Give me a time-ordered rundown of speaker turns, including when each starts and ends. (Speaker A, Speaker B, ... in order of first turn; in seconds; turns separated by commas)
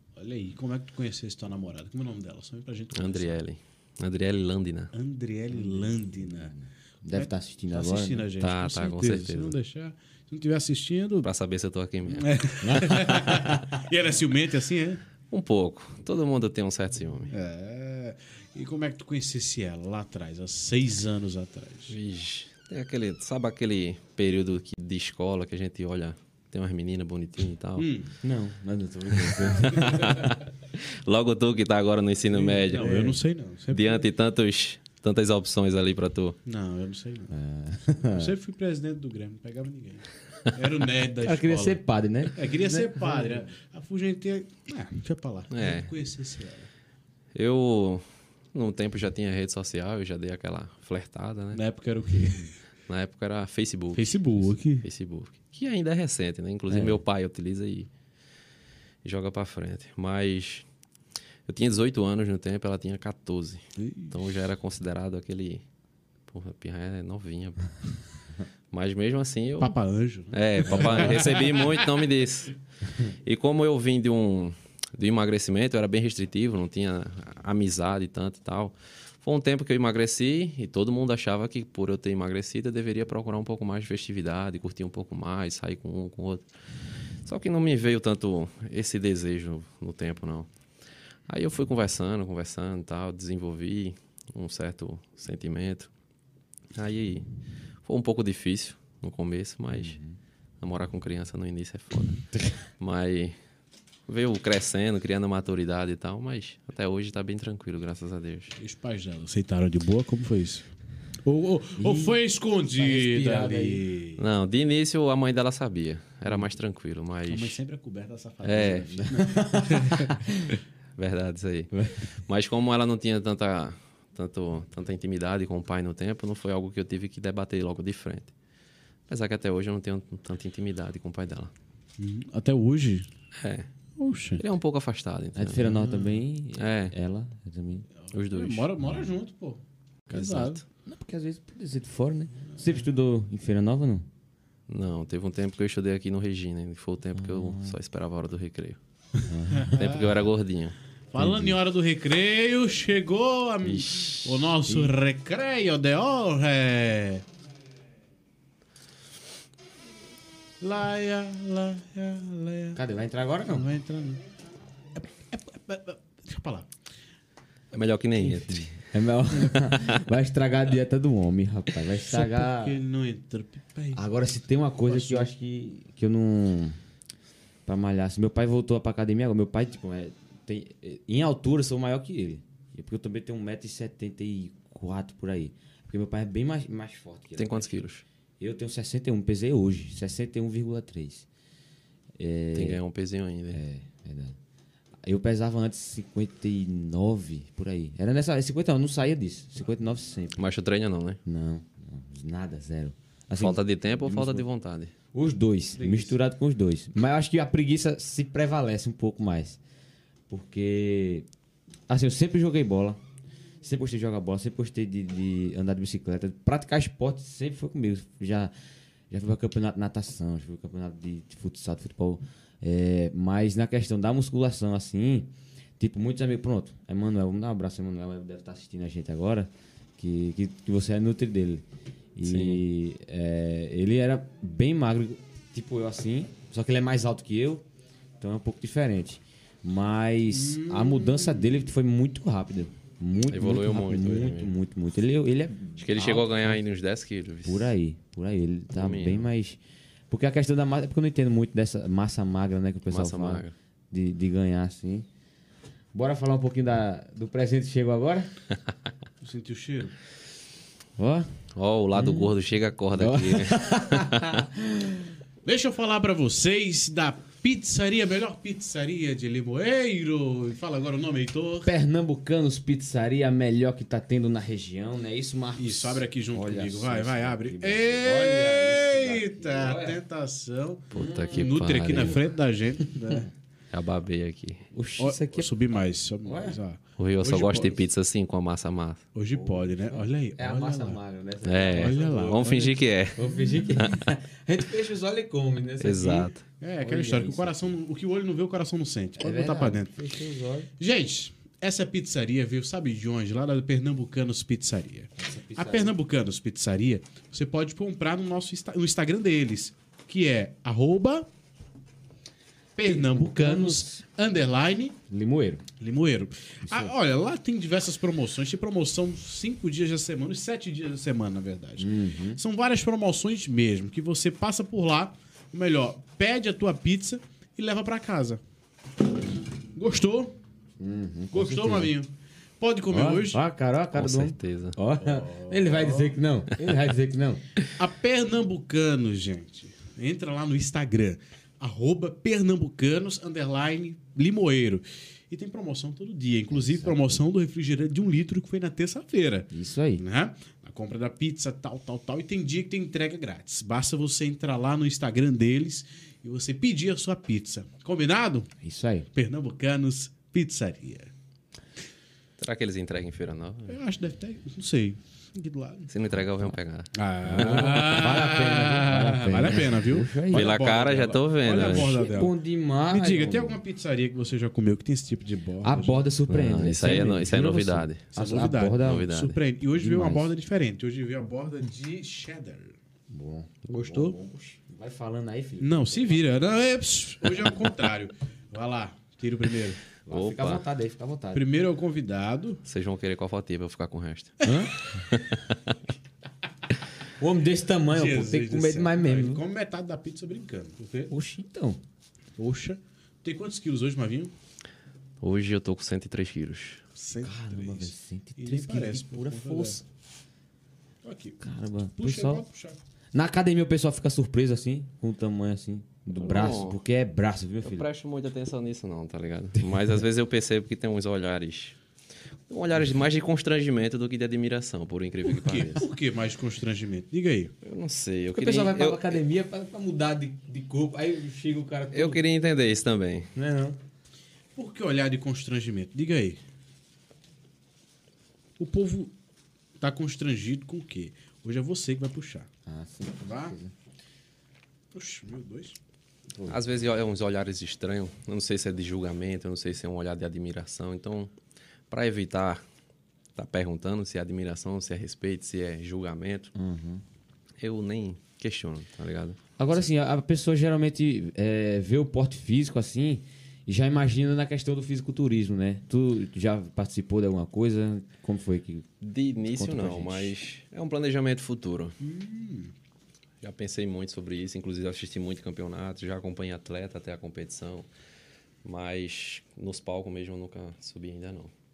Speaker A: 0.2-3.3, Speaker B: 2.9-4.9, Speaker A: 4.9-6.5, Speaker C: 5.5-8.3, Speaker A: 7.1-11.3, Speaker B: 8.4-9.6, Speaker B: 11.2-12.4, Speaker A: 12.1-15.0, Speaker C: 12.6-13.7, Speaker B: 15.3-17.3, Speaker A: 17.3-21.9, Speaker B: 21.9-27.9, Speaker A: 27.8-28.1, Speaker C: 28.2-30.4, Speaker B: 29.5-33.2, Speaker A: 29.6-30.2, Speaker A: 32.3-34.1, Speaker B: 33.7-36.4, Speaker A: 36.5-37.3, Speaker C: 37.3-38.3, Speaker A: 38.0-41.8, Speaker C: 41.2-43.5, Speaker A: 42.3-46.7, Speaker B: 45.5-45.9, Speaker B: 47.4-51.6, Speaker A: 51.5-52.6, Speaker B: 52.9-57.9, Speaker A: 53.9-54.9, Speaker C: 56.7-57.0, Speaker B: 59.0-60.7, Speaker B: 61.5-65.6, Speaker A: 63.8-64.2, Speaker B: 66.3-67.7, Speaker B: 68.7-69.7, Speaker A: 69.6-71.9, Speaker B: 70.3-86.5, Speaker B: 87.3-90.5, Speaker B: 91.3-95.9, Speaker B: 96.8-97.2, Speaker B: 97.8-100.0, Speaker C: 99.7-100.2, Speaker B: 100.6-102.2, Speaker B: 102.8-103.4, Speaker B: 104.1-108.5, Speaker A: 108.6-110.7, Speaker A: 111.2-114.2, Speaker C: 111.8-112.2, Speaker C: 112.8-113.8, Speaker B: 114.2-117.6, Speaker A: 117.3-120.2, Speaker B: 118.4-119.0, Speaker C: 119.1-120.5, Speaker B: 121.0-128.3, Speaker C: 121.7-122.0, Speaker B: 129.1-131.5, Speaker A: 132.0-133.1, Speaker B: 133.4-133.7, Speaker A: 134.0-134.4, Speaker B: 134.4-135.7, Speaker C: 135.4-137.9, Speaker A: 135.6-136.2, Speaker B: 136.6-136.9, Speaker A: 138.0-140.6, Speaker B: 138.1-138.7, Speaker B: 140.1-140.6, Speaker C: 140.9-144.1, Speaker B: 144.7-148.8, Speaker C: 147.2-147.8, Speaker C: 149.3-149.8, Speaker A: 149.5-150.1, Speaker B: 149.7-150.8, Speaker A: 151.1-157.2, Speaker C: 151.2-151.6, Speaker B: 153.6-154.3, Speaker C: 154.7-154.9, Speaker A: 160.6-162.8, Speaker C: 162.8-163.7, Speaker A: 163.5-164.2, Speaker A: 164.9-166.7, Speaker B: 167.7-168.8, Speaker C: 168.2-172.8, Speaker B: 169.6-170.0, Speaker A: 172.0-174.0, Speaker C: 173.9-176.8, Speaker A: 174.9-175.3, Speaker C: 177.7-187.8, Speaker B: 187.4-188.0, Speaker C: 188.4-191.3, Speaker C: 192.2-192.8, Speaker B: 192.5-193.6, Speaker C: 193.5-194.4, Speaker C: 195.0-200.4, Speaker B: 200.4-201.2, Speaker C: 201.2-204.4, Speaker B: 203.4-204.9, Speaker C: 205.1-209.6, Speaker A: 205.8-206.2, Speaker C: 210.3-211.3, Speaker C: 211.9-213.0, Speaker C: 213.6-218.5, Speaker C: 219.1-231.6, Speaker C: 232.2-237.6, Speaker B: 232.2-232.6, Speaker C: 238.2-246.6, Speaker A: 240.3-241.7, Speaker B: 243.3-244.5, Speaker B: 245.8-247.7, Speaker C: 247.4-249.6, Speaker B: 248.8-249.3, Speaker C: 250.1-255.1, Speaker B: 252.9-253.5, Speaker C: 255.9-258.3, Speaker A: 259.2-259.9, Speaker C: 261.0-261.3, Speaker B: 261.6-264.4, Speaker C: 261.9-262.3, Speaker C: 262.9-265.1, Speaker A: 265.4-271.7, Speaker C: 271.6-280.0, Speaker A: 275.6-283.3, Speaker B: 280.9-282.2, Speaker C: 280.9-282.2, Speaker C: 282.8-283.3, Speaker B: 283.7-284.7, Speaker C: 284.7-285.5, Speaker A: 285.0-287.8, Speaker C: 286.2-286.6, Speaker B: 287.0-289.0, Speaker C: 287.4-287.6, Speaker A: 289.1-291.0, Speaker C: 289.3-297.8, Speaker B: 291.4-293.3, Speaker A: 291.7-292.8, Speaker B: 295.8-296.4, Speaker A: 296.5-300.0, Speaker C: 299.2-300.7, Speaker A: 300.8-311.3, Speaker C: 305.2-305.9, Speaker A: 312.8-315.0, Speaker C: 312.9-314.0, Speaker C: 315.1-315.6, Speaker A: 315.8-328.4, Speaker C: 316.7-316.9, Speaker C: 321.8-322.4, Speaker A: 329.8-330.4, Speaker C: 330.8-331.9, Speaker A: 331.3-332.1, Speaker A: 332.6-333.4, Speaker C: 332.9-337.4, Speaker B: 333.9-334.8, Speaker A: 335.0-336.2, Speaker A: 337.8-358.5, Speaker C: 346.5-347.2, Speaker C: 349.5-350.0, Speaker C: 358.6-359.1, Speaker A: 359.1-361.1, Speaker B: 362.4-363.8, Speaker A: 363.7-365.9, Speaker B: 365.9-368.0, Speaker A: 366.9-372.4, Speaker C: 367.3-370.5, Speaker B: 370.3-371.9, Speaker C: 371.5-373.6, Speaker A: 372.9-376.1, Speaker C: 375.6-379.1, Speaker B: 376.3-378.1, Speaker A: 378.1-382.8, Speaker B: 378.8-379.4, Speaker C: 379.7-380.3, Speaker C: 383.1-386.2, Speaker A: 383.7-384.2, Speaker A: 385.6-389.8, Speaker C: 390.1-391.5, Speaker B: 390.1-390.6, Speaker A: 391.3-392.6, Speaker B: 392.6-394.4, Speaker C: 394.4-394.8, Speaker B: 395.0-395.8, Speaker C: 397.2-399.4, Speaker A: 397.9-401.1, Speaker C: 401.1-401.8, Speaker A: 402.4-404.3, Speaker B: 405.2-406.8, Speaker A: 406.9-409.8, Speaker C: 407.2-409.8, Speaker A: 411.0-411.4, Speaker C: 411.4-412.4, Speaker A: 412.0-412.8, Speaker C: 413.1-417.9, Speaker B: 416.2-416.8, Speaker B: 417.6-421.8, Speaker B: 422.5-425.8, Speaker A: 425.2-427.5, Speaker C: 425.5-425.8, Speaker B: 427.6-429.2, Speaker C: 428.3-432.2, Speaker B: 431.9-433.3, Speaker C: 433.4-433.8, Speaker A: 434.6-436.4, Speaker A: 438.6-439.1, Speaker A: 439.8-442.5, Speaker C: 442.7-443.7, Speaker A: 443.2-443.6, Speaker A: 444.9-445.8, Speaker C: 446.4-446.6, Speaker B: 446.5-451.3, Speaker B: 451.9-452.6, Speaker B: 453.4-456.5, Speaker C: 456.5-457.0, Speaker B: 457.6-459.4, Speaker C: 459.6-468.9, Speaker B: 469.0-471.9, Speaker C: 469.5-470.3, Speaker A: 472.0-472.7, Speaker B: 473.4-477.9, Speaker B: 478.6-481.5